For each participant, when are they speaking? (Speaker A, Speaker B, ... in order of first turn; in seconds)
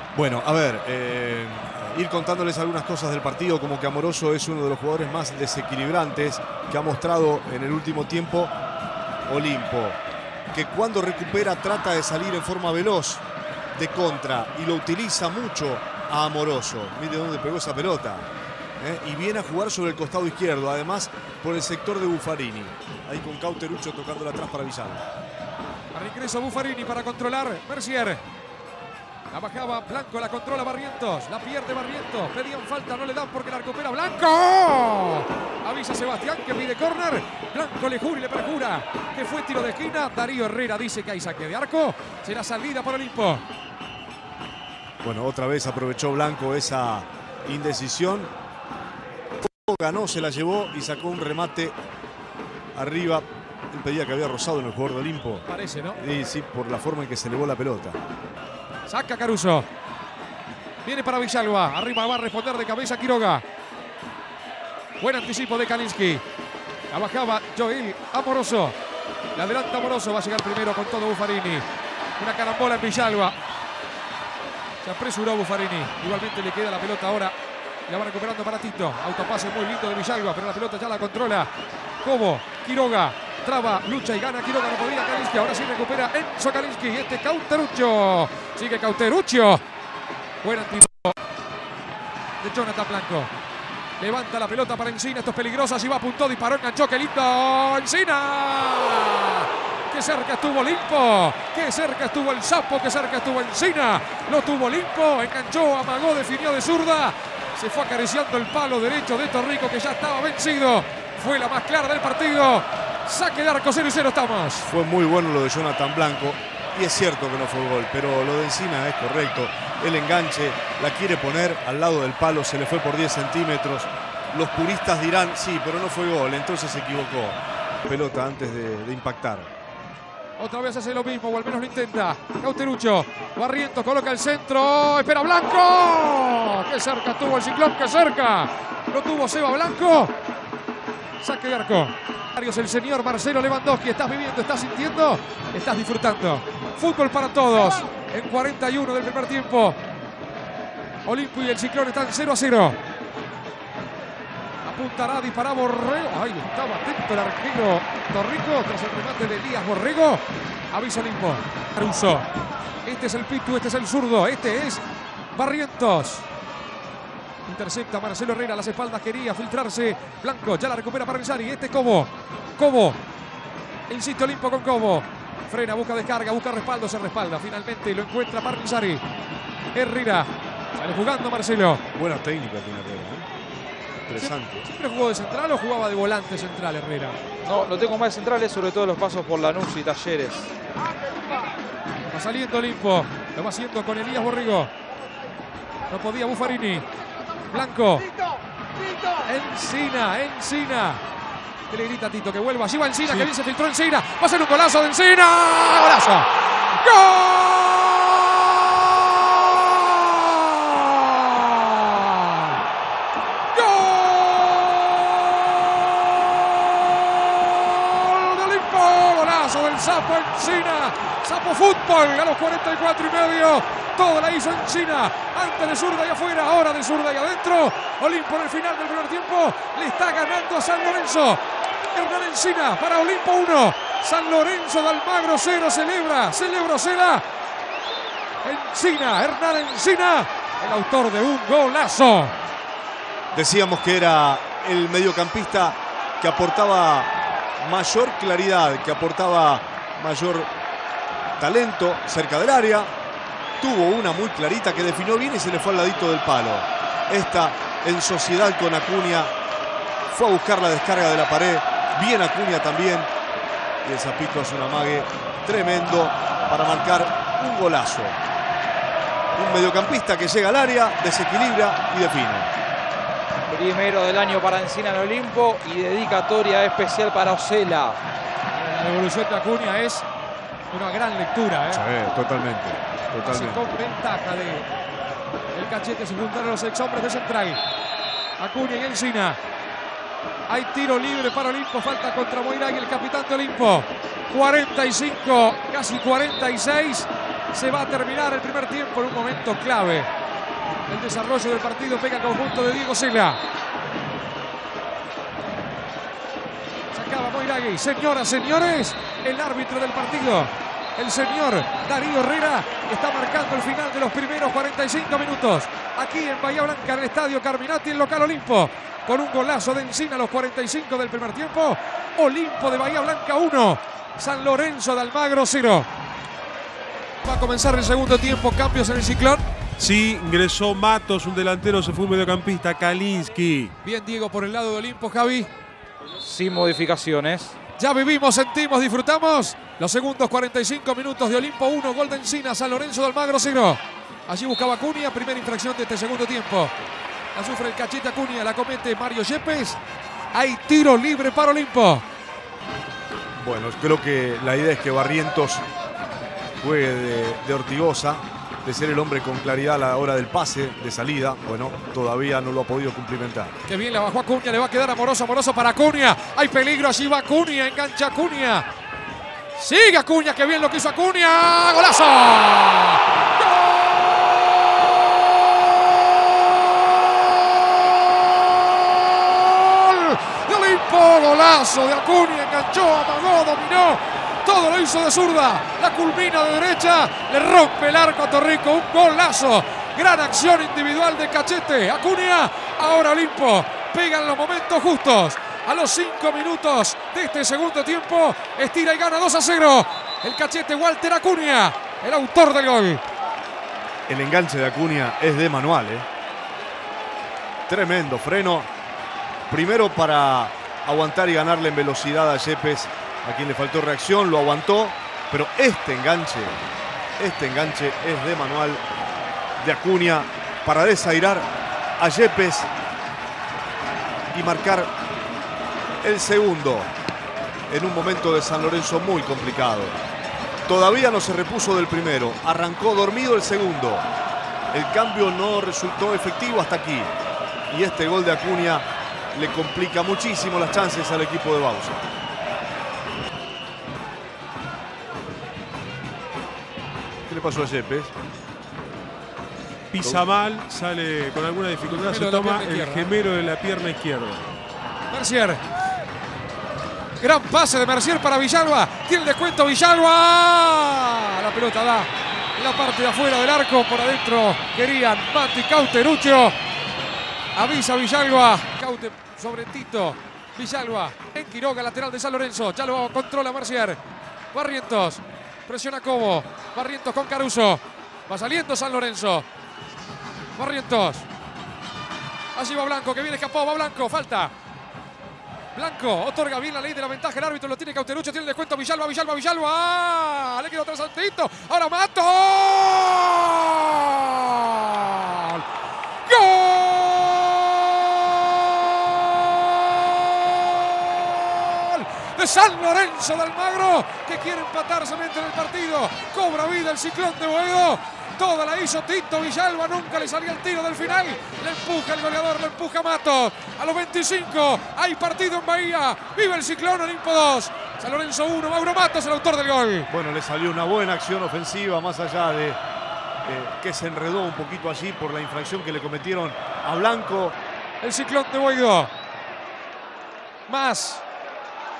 Speaker A: 0.1-8.5, 9.2-10.0, 10.5-18.3, 18.8-25.0, 45.0-48.3, 49.4-51.8, 52.7-58.0, 114.7-129.5, 181.9-183.2, 184.1-184.7, 243.3-250.5, 251.4-252.9, 253.6-259.3, 260.1-263.1, 263.8-268.2, 269.3-272.5, 281.7-283.6, 353.4-355.6, 356.6-363.5, 404.1-406.1, 407.7-408.7, 409.5-416.6, 417.2-418.8, 419.6-422.7, 424.3-424.9, 426.0-426.9, 427.7-430.0, 430.6-434.1, 434.7-437.1, 437.7-442.0, 447.3-448.1, 520.1-522.8, 523.4-527.6
Speaker B: 25.9-28.2, 29.3-43.4, 55.5-56.0, 58.9-59.7, 60.8-63.4, 65.0-66.2, 66.9-68.8, 69.3-71.7, 72.2-73.3, 74.8-77.3, 77.9-81.5, 82.0-89.6, 90.4-91.2, 92.4-93.3, 94.0-114.7, 130.4-140.1, 141.2-149.8, 151.0-152.8, 154.6-162.3, 162.8-166.2, 167.4-173.0, 173.9-179.0, 179.7-181.8, 184.2-187.2, 192.1-194.7, 195.9-196.9, 197.5-198.1, 199.2-201.0, 201.7-212.6, 213.5-231.4, 231.9-237.2, 238.4-242.4, 278.5-280.0, 280.7-281.8, 283.2-284.7, 285.5-287.6, 288.4-289.4, 290.5-300.1, 300.9-303.4, 306.9-325.9, 327.2-329.4, 333.8-335.5, 337.8-346.7, 347.3-349.8, 350.3-352.0, 363.7-368.7, 369.5-403.0, 452.0-453.1, 455.1-455.6, 457.2-466.6, 467.5-474.0, 474.5-479.4, 480.5-481.3, 482.5-484.5, 485.7-495.6, 496.2-520.1, 528.0-529.1, 530.7-531.2
Speaker C: 187.4-190.5, 273.5-278.0, 336.2-337.5
Speaker D: 329.8-333.7, 449.9-454.5